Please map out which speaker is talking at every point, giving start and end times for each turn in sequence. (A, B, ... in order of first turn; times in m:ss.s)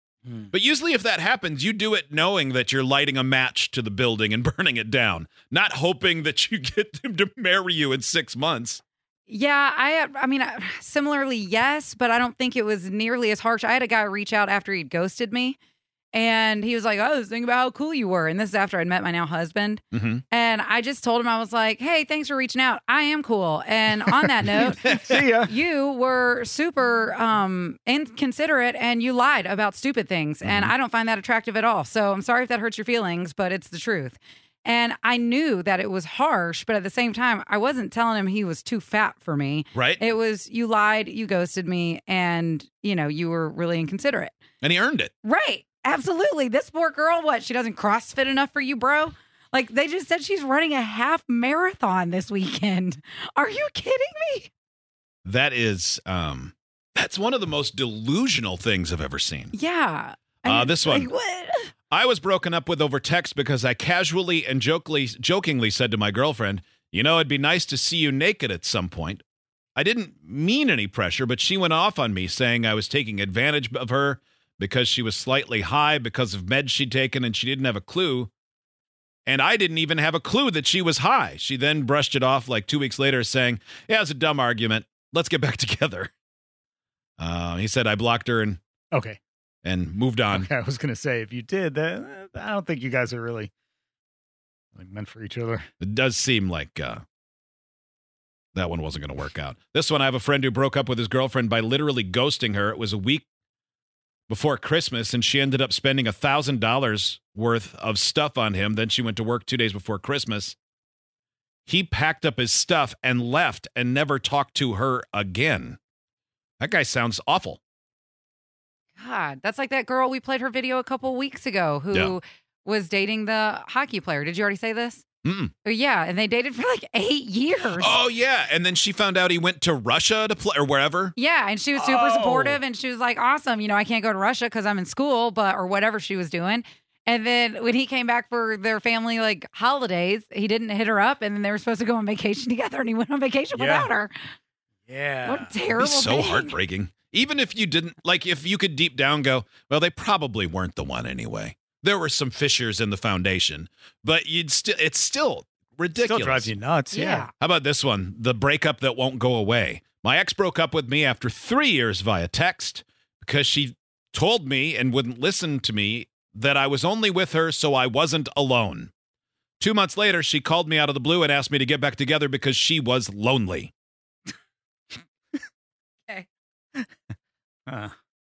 0:00.5-0:08.8 A
0:09.3-0:15.6 B
0:16.1-0:44.3 B
0:19.9-0:20.2 A
0:24.6-0:25.5 C
0:30.4-0:30.7 A
0:39.8-0:40.0 A
0:44.6-0:45.1 A
0:45.2-0:54.5 B
0:55.2-0:59.5 A
0:59.5-1:01.7 B
1:00.4-1:01.1 A
1:01.9-1:09.2 A
1:09.8-1:18.3 A
1:19.3-1:26.1 A
1:27.2-1:28.6 A
1:28.9-1:29.2 C
1:29.6-1:30.5 A
1:30.3-1:33.5 C
1:34.8-1:35.7 C
1:35.8-1:37.0 A
1:38.6-1:43.2 A
1:44.3-1:50.6 A
1:51.7-1:55.8 A
1:56.6-1:57.6 A
1:59.0-2:05.0 B
2:05.2-2:05.5 A
2:05.6-2:08.0 B
2:07.7-2:11.2 A
2:11.2-2:24.2 B
2:11.8-2:12.6 C
2:23.6-2:23.9 C
2:24.9-2:25.6 C
2:25.2-2:26.5 B
2:25.8-2:36.5 A
2:36.0-2:37.3 C
2:36.9-2:37.3 B
2:37.4-2:48.9 A
2:49.6-2:53.7 A
2:57.7-2:58.0 C